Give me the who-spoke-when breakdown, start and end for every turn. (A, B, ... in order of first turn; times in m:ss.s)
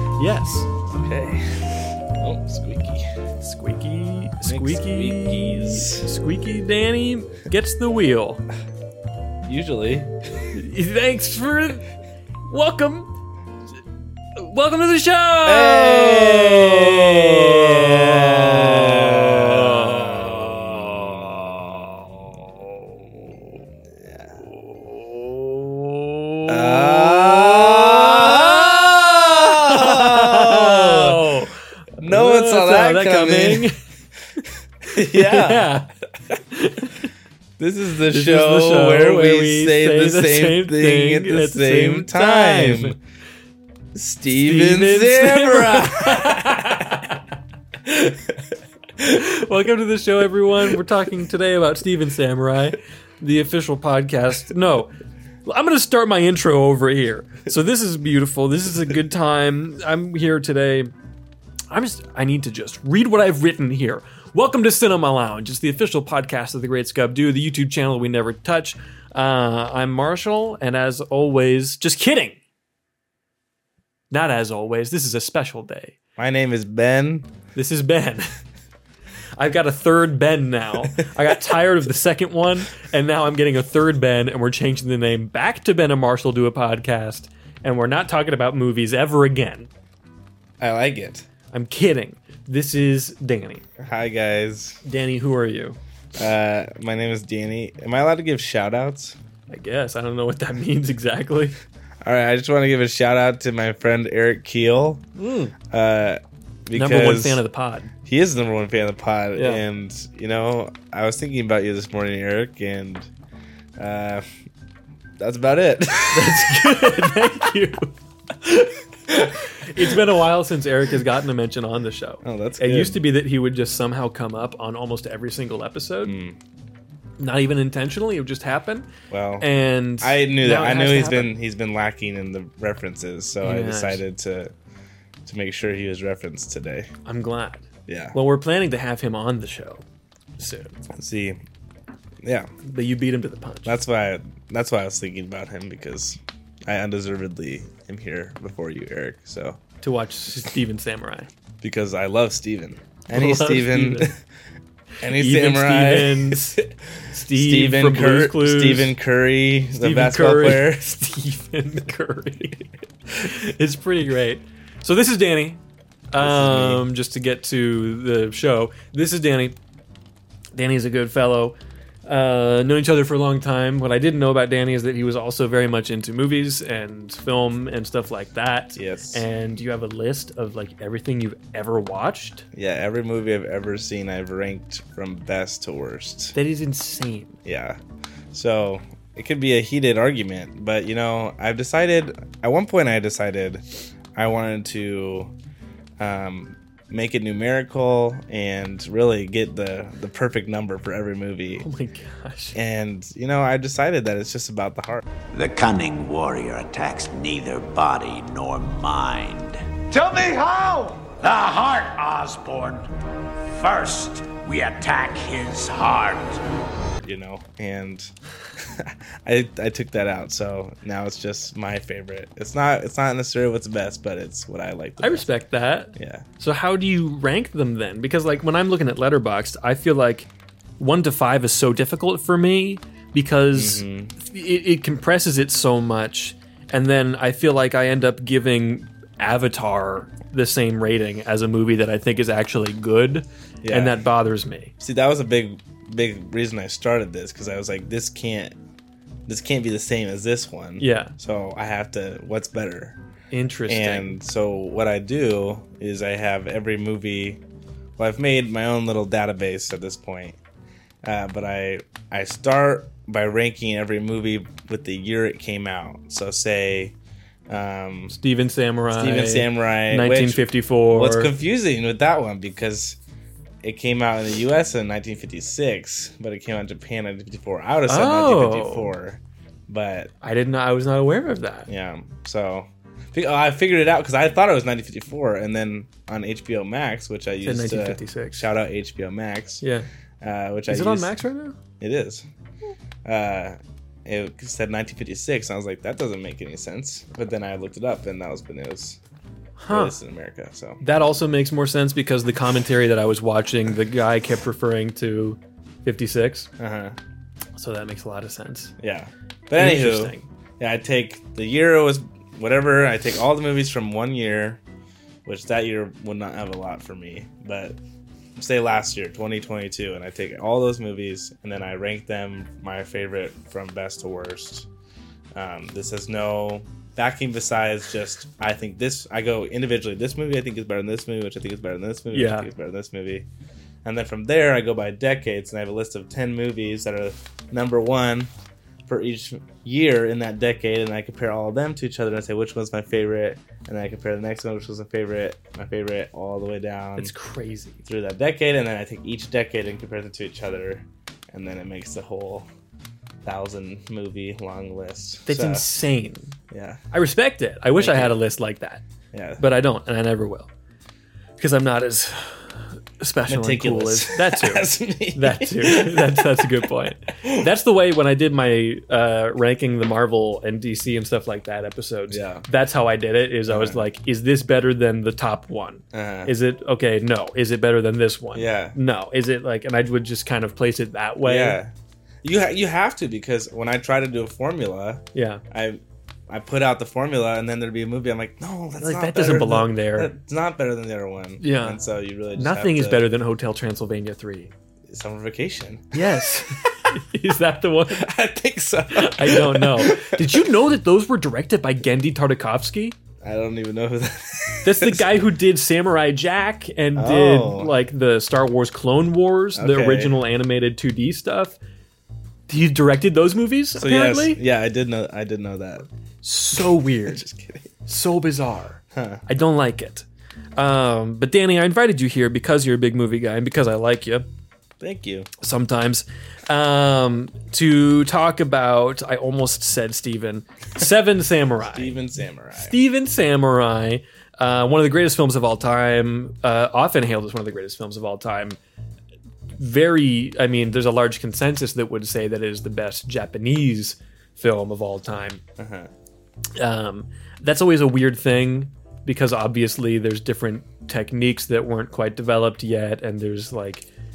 0:00.2-0:00.7 A
0:00.9-0:03.1 B
0:03.4-0:08.4 A
0:04.4-0:06.1 B
0:09.4-0:10.5 B
0:10.5-0:11.9 A
0:12.5-0:13.1 A
0:14.4-0:23.4 A
0:15.4-0:21.0 B
0:24.0-0:24.3 B
0:24.4-0:33.8 A
0:26.5-0:31.3 B
0:32.0-0:33.7 B
0:34.8-0:35.7 B
0:34.9-0:37.1 A
0:37.6-0:43.0 B
0:38.1-0:43.0 A
0:44.0-0:47.0 B
0:44.3-0:47.2 A
0:47.8-0:48.4 B
0:49.0-0:54.9 A
0:55.4-1:00.9 A
1:01.7-1:12.4 A
1:14.1-1:16.0 A
1:16.2-1:17.3 B
1:17.6-1:18.4 A
1:19.4-1:29.7 A
1:30.6-1:31.3 B
1:31.5-1:33.6 A
1:33.8-1:34.8 B
1:34.8-1:35.8 A
1:36.2-1:39.2 B
1:39.5-1:41.6 A
1:42.0-1:45.0 B
1:45.2-1:45.6 A
1:45.7-1:47.4 B
1:46.8-1:47.9 A
1:48.0-1:53.1 B
1:49.4-1:49.6 A
1:53.8-1:54.3 B
1:55.2-1:57.2 B
1:56.1-2:06.2 A
2:02.2-2:03.0 B
2:06.0-2:06.4 B
2:07.2-2:08.9 A
2:09.1-2:09.5 B
2:09.4-2:11.3 A
2:10.0-2:14.5 B
2:13.4-2:14.0 A
2:15.2-2:16.9 B
2:17.0-2:19.8 A
2:17.9-2:18.2 B
2:20.4-2:20.8 A
2:20.9-2:21.4 B
2:22.2-2:22.5 B
2:22.6-2:23.8 A
2:23.6-2:29.6 B
2:29.8-2:31.3 A
2:31.6-2:34.2 B
2:33.1-2:34.1 A
2:35.0-2:36.7 B
2:35.1-2:38.9 A
2:37.3-2:41.0 B
2:39.7-2:45.6 A
2:46.1-2:49.6 A
2:46.2-2:46.8 B
2:50.5-3:02.5 A
2:58.8-2:59.2 B
3:02.5-3:06.4 B
3:06.4-3:07.4 A
3:07.4-3:07.8 B
3:08.3-3:13.6 B
3:14.2-3:15.3 B
3:16.0-3:21.7 B
3:21.6-3:22.6 A
3:22.5-3:25.0 B
3:25.3-3:32.9 C
3:33.5-3:36.4 C
3:37.0-3:45.3 B
3:45.0-4:04.7 A
3:46.0-3:46.3 B
3:53.5-3:54.2 B
4:03.6-4:04.0 B
4:04.8-4:08.5 B
4:09.3-4:13.0 B
4:10.8-4:11.1 A
4:13.3-4:14.2 A
4:13.7-4:17.4 B
4:18.0-4:20.4 B
4:21.0-4:27.0 B
4:27.5-4:28.1 B
4:28.1-4:31.3 A
4:28.9-4:33.0 B
4:33.6-4:40.1 B
4:37.9-4:38.9 A
4:40.2-4:41.7 A
4:41.7-4:49.6 B
4:47.4-4:48.5 A
4:49.6-4:49.9 A
4:50.2-4:51.2 B
4:50.7-4:51.6 A
4:51.8-4:52.3 B
4:53.0-4:59.0 B
4:59.6-5:00.0 A
4:59.7-5:00.8 B
5:00.8-5:06.5 A
5:06.6-5:07.0 B
5:07.6-5:08.7 A
5:08.8-5:14.6 B
5:09.6-5:10.3 A
5:15.3-5:17.8 B
5:18.4-5:24.7 B
5:25.3-5:33.3 B
5:32.1-5:32.5 A
5:33.8-5:38.3 B
5:38.9-5:47.1 B
5:47.0-5:47.8 A
5:47.8-5:52.5 B
5:53.2-5:55.7 B
5:55.3-5:56.4 A
5:56.5-5:56.8 B
5:56.9-5:58.8 A
5:57.8-5:58.2 B
5:59.1-5:59.5 B
5:59.4-6:00.5 A
6:01.4-6:21.6 A
6:03.3-6:06.7 B
6:07.2-6:07.5 B
6:12.1-6:12.5 B
6:13.5-6:13.8 B
6:15.9-6:16.3 B
6:18.3-6:18.8 B
6:21.2-6:21.7 B
6:22.2-6:33.1 B
6:25.1-6:25.4 A
6:28.8-6:30.1 A
6:31.4-6:31.8 A
6:32.4-6:34.5 A
6:34.9-6:36.9 B
6:35.9-6:38.1 A
6:37.9-6:40.4 B
6:38.9-6:43.0 A
6:43.2-6:45.1 B
6:44.6-6:51.6 A
6:47.0-6:47.7 B
6:49.6-6:50.2 B
6:52.5-6:54.4 A
6:53.8-6:55.9 B
6:56.2-6:57.3 A
6:56.6-6:57.7 B
6:57.9-7:04.2 A
6:58.9-6:59.2 B
7:04.8-7:05.3 B
7:05.4-7:12.0 A
7:11.6-7:12.8 B
7:12.6-7:18.6 A
7:19.6-7:25.4 A
7:25.6-7:25.9 B
7:26.6-7:33.9 A